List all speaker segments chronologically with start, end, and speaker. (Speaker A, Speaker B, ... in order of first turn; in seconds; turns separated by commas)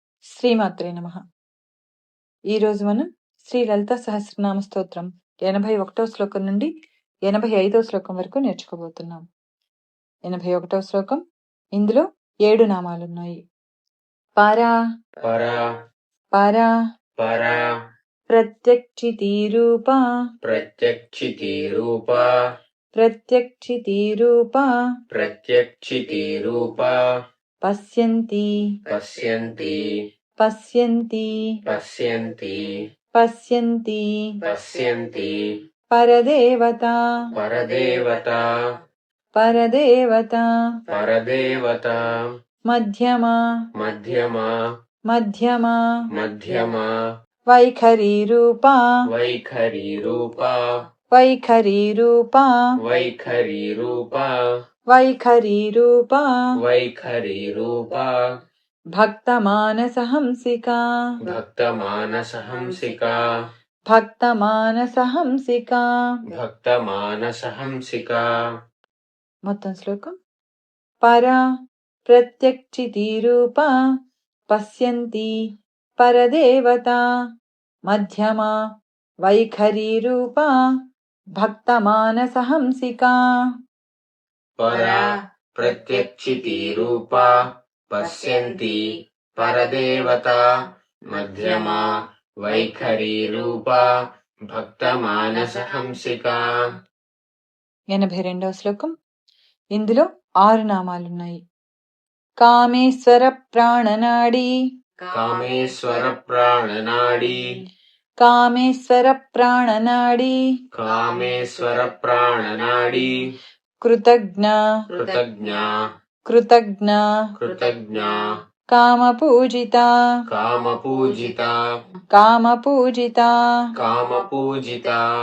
Speaker A: 0.3-1.2, Speaker A: 2.5-6.7, Speaker A: 7.3-9.2, Speaker A: 10.3-11.2, Speaker A: 11.8-13.4, Speaker A: 14.4-14.7, Speaker B: 15.2-15.7, Speaker A: 16.4-16.7, Speaker B: 17.2-17.7, Speaker A: 18.3-20.0, Speaker B: 20.4-22.4, Speaker A: 23.0-24.7, Speaker B: 25.1-27.1, Speaker A: 27.6-28.8, Speaker B: 28.9-30.0, Speaker A: 30.4-31.5, Speaker B: 31.7-32.8, Speaker A: 33.1-34.1, Speaker B: 34.4-35.5, Speaker A: 35.9-37.0, Speaker B: 37.4-38.6, Speaker A: 39.4-40.5, Speaker B: 40.9-42.2, Speaker A: 42.7-43.4, Speaker B: 43.8-44.6, Speaker A: 45.1-45.8, Speaker B: 46.1-47.0, Speaker A: 47.5-48.8, Speaker B: 49.1-50.6, Speaker A: 51.1-52.5, Speaker B: 52.8-54.4, Speaker A: 54.9-56.3, Speaker B: 56.6-58.2, Speaker A: 59.0-60.9, Speaker B: 61.3-63.3, Speaker A: 63.9-65.9, Speaker B: 66.3-68.4, Speaker A: 69.5-70.2, Speaker A: 71.0-71.4, Speaker A: 72.1-73.7, Speaker A: 74.5-75.3, Speaker A: 76.0-77.0, Speaker A: 77.9-78.5, Speaker A: 79.2-80.5, Speaker A: 81.4-83.2, Speaker B: 84.6-90.6, Speaker B: 91.1-96.5, Speaker A: 97.9-98.9, Speaker A: 99.8-101.4, Speaker A: 102.4-104.5, Speaker B: 105.1-107.5, Speaker A: 108.2-110.4, Speaker B: 110.7-113.3, Speaker A: 113.8-114.6, Speaker B: 114.9-115.8, Speaker A: 116.3-117.1, Speaker B: 117.4-118.3, Speaker A: 118.7-119.9, Speaker B: 120.3-121.6, Speaker A: 122.1-123.4, Speaker B: 123.8-125.1